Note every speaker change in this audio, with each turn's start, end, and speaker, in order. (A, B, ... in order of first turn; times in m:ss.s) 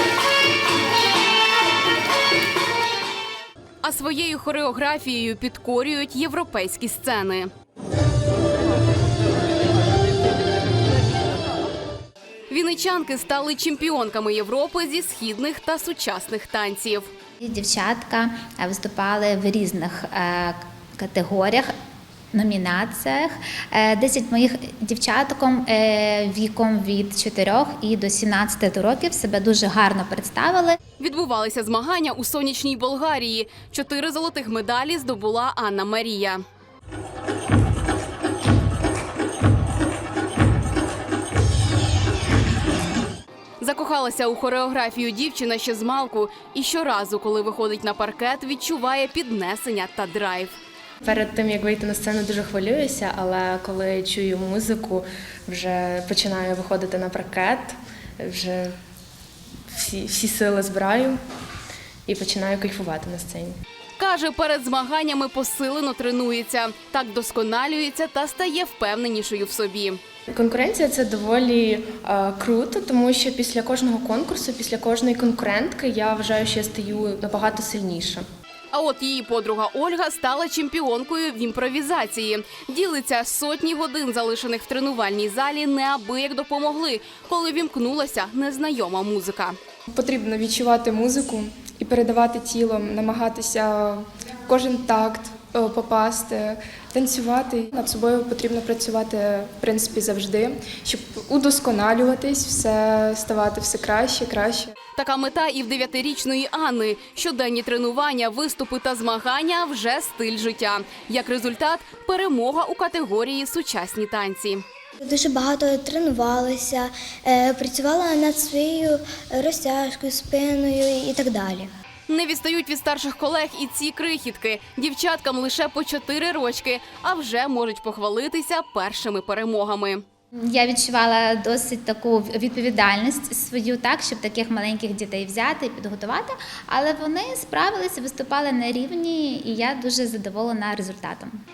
0:03.8-0:07.5 A
0:12.5-0:17.1 A
0:17.4-0:21.7 B
0:22.3-0:30.8 B
0:31.0-0:36.4 A
0:43.6-0:50.6 A
0:51.0-0:58.7 C
0:59.7-1:01.2 C
1:02.1-1:03.5 C
1:04.0-1:10.0 A
1:10.3-1:18.2 C
1:18.7-1:29.6 A
1:29.9-1:44.7 D
1:45.0-1:54.6 A
1:55.0-2:01.7 E
2:02.1-2:10.0 A
2:10.4-2:21.4 B